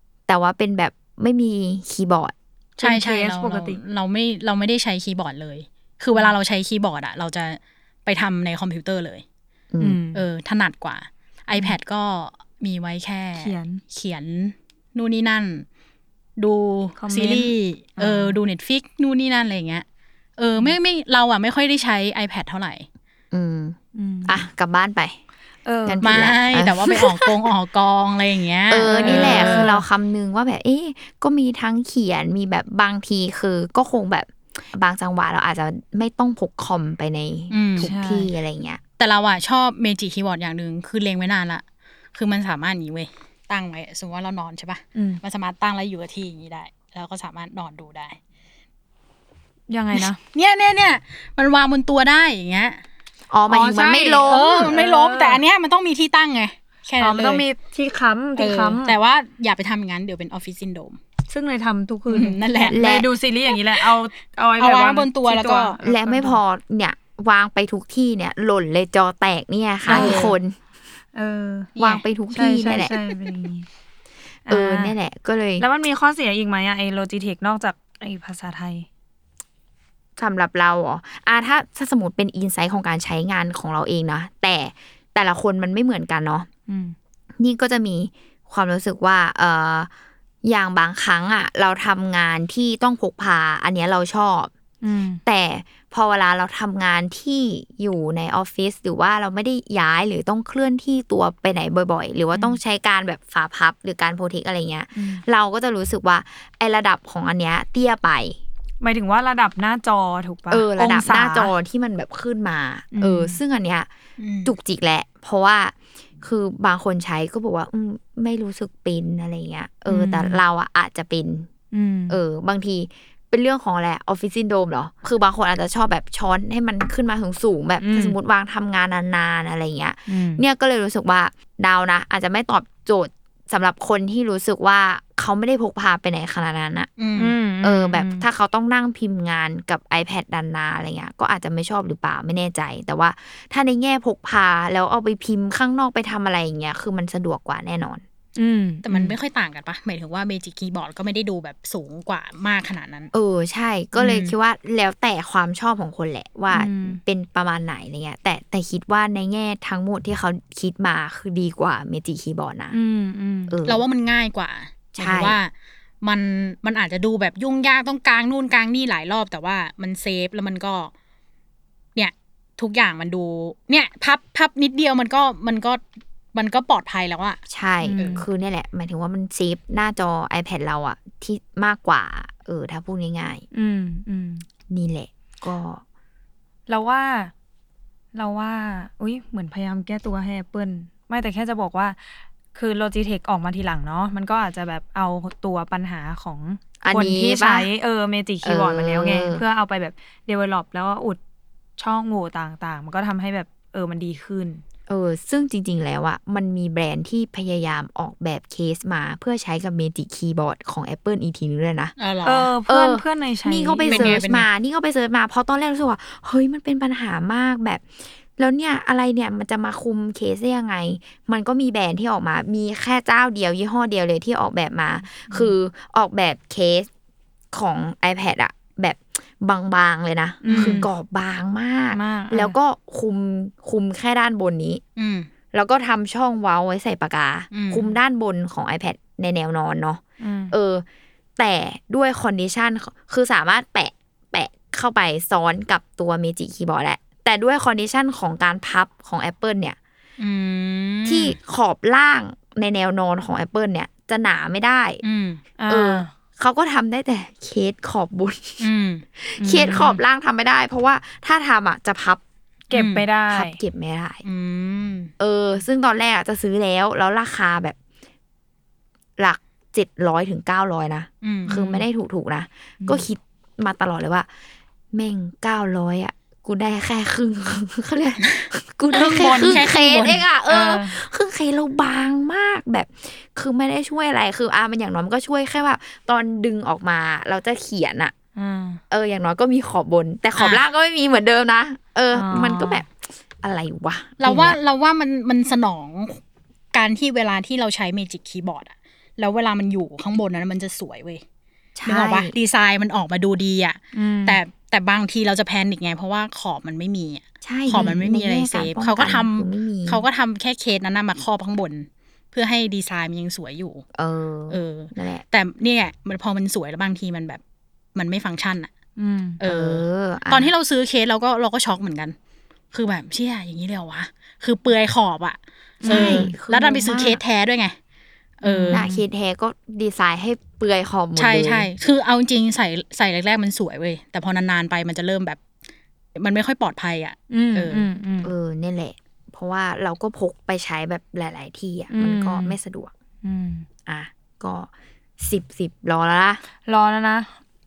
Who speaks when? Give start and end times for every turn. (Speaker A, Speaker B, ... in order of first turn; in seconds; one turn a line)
Speaker A: 0.3-2.3
Speaker B: 2.8-9.2
Speaker C: 2.8-3.8
Speaker A: 9.7-10.0
Speaker C: 9.8-10.2
Speaker B: 10.1-15.7
Speaker C: 13.3-13.8
Speaker B: 16.4-19.8
Speaker C: 17.0-18.4
Speaker B: 20.4-22.9
Speaker A: 23.3-25.1
Speaker C: 23.9-24.4
Speaker C: 25.6-26.1
Speaker A: 25.9-27.3
Speaker B: 26.0-29.7
Speaker A: 28.7-38.8
Speaker C: 28.9-29.8
Speaker B: 37.5-37.9
Speaker C: 37.8-38.3
Speaker B: 39.0-41.6
Speaker B: 42.1-48.2
Speaker C: 44.9-45.2
Speaker C: 49.7-50.2
Speaker B: 49.9-52.8
Speaker A: 53.3-54.7
Speaker C: 53.5-55.4
Speaker B: 54.2-57.5
Speaker C: 57.0-59.0
Speaker B: 58.4-61.0
Speaker C: 61.3-66.4
Speaker B: 62.1-62.8
Speaker A: 62.7-63.1
Speaker B: 64.6-65.8
Speaker A: 65.8-70.5
Speaker C: 69.9-70.3
Speaker B: 69.9-70.3
Speaker C: 71.1-71.8
Speaker A: 71.8-73.0
Speaker C: 72.3-73.7
Speaker C: 74.5-74.9
Speaker A: 74.5-75.7
Speaker C: 75.6-78.9
Speaker A: 80.2-86.5
Speaker C: 86.7-87.0
Speaker A: 87.4-89.9
Speaker A: 90.4-94.5
Speaker C: 94.8-95.2
Speaker A: 95.2-108.4
Speaker C: 104.9-105.2
Speaker C: 108.8-111.5
Speaker A: 110.5-113.9
Speaker C: 112.9-113.4
Speaker B: 114.2-114.5
Speaker A: 114.4-121.5
Speaker C: 119.9-120.4
Speaker C: 121.7-122.2
Speaker A: 122.1-136.9
Speaker C: 127.8-128.2
Speaker C: 130.1-130.4
Speaker B: 137.0-137.3
Speaker C: 137.2-138.2
Speaker A: 137.6-148.0
Speaker C: 148.4-148.8
Speaker B: 148.8-153.1
Speaker A: 153.1-162.8
Speaker B: 153.9-154.3
Speaker C: 156.5-157.0
Speaker C: 162.7-163.6
Speaker A: 163.5-163.8
Speaker B: 163.6-165.5
Speaker A: 164.9-165.4
Speaker B: 166.0-170.9
Speaker B: 171.9-175.8
Speaker B: 176.3-177.4
Speaker A: 177.5-183.4
Speaker C: 177.8-178.3
Speaker C: 183.5-184.4
Speaker A: 184.7-185.8
Speaker C: 186.7-187.3
Speaker C: 188.1-192.0
Speaker C: 192.5-201.2
Speaker A: 196.8-197.7
Speaker A: 198.4-199.4
Speaker C: 201.8-204.6
Speaker A: 204.9-211.9
Speaker B: 212.0-212.5
Speaker C: 212.2-214.2
Speaker A: 212.7-226.9
Speaker B: 213.9-214.5
Speaker C: 225.3-225.5
Speaker A: 227.5-234.8
Speaker C: 230.4-230.9
Speaker B: 230.5-230.8
Speaker C: 231.9-232.6
Speaker B: 235.0-235.3
Speaker A: 235.5-240.8
Speaker B: 237.5-237.9
Speaker C: 240.2-240.5
Speaker A: 241.4-249.8
Speaker B: 250.2-251.3
Speaker A: 251.1-255.0
Speaker B: 255.0-255.4
Speaker C: 255.6-256.1
Speaker A: 255.7-258.6
Speaker B: 258.6-259.0
Speaker A: 259.2-262.2
Speaker C: 259.4-260.0
Speaker C: 262.7-263.6
Speaker B: 262.7-263.1
Speaker A: 263.3-264.2
Speaker B: 264.2-265.1
Speaker A: 265.2-267.8
Speaker A: 269.2-274.3
Speaker B: 271.2-271.8
Speaker A: 274.9-288.1
Speaker B: 278.3-280.2
Speaker C: 278.9-281.0
Speaker C: 288.4-288.8
Speaker A: 288.9-292.9
Speaker C: 292.1-292.8
Speaker A: 293.4-294.6
Speaker B: 294.2-296.2
Speaker B: 296.7-301.2
Speaker A: 301.8-302.3
Speaker B: 301.9-313.8
Speaker C: 303.9-304.4
Speaker A: 307.4-310.0
Speaker A: 313.9-315.2
Speaker B: 314.5-317.4
Speaker B: 317.9-318.7
Speaker C: 319.0-319.4
Speaker B: 319.4-322.1
Speaker A: 319.4-320.5
Speaker B: 322.7-327.7
Speaker C: 325.8-326.3
Speaker A: 325.9-327.2
Speaker B: 328.4-328.8
Speaker C: 328.4-329.0
Speaker A: 328.7-331.7
Speaker B: 331.2-335.4
Speaker B: 336.1-337.9
Speaker C: 337.3-338.3
Speaker A: 338.2-342.9
Speaker C: 341.9-342.6
Speaker C: 343.2-343.6
Speaker A: 343.9-346.4
Speaker C: 346.6-347.4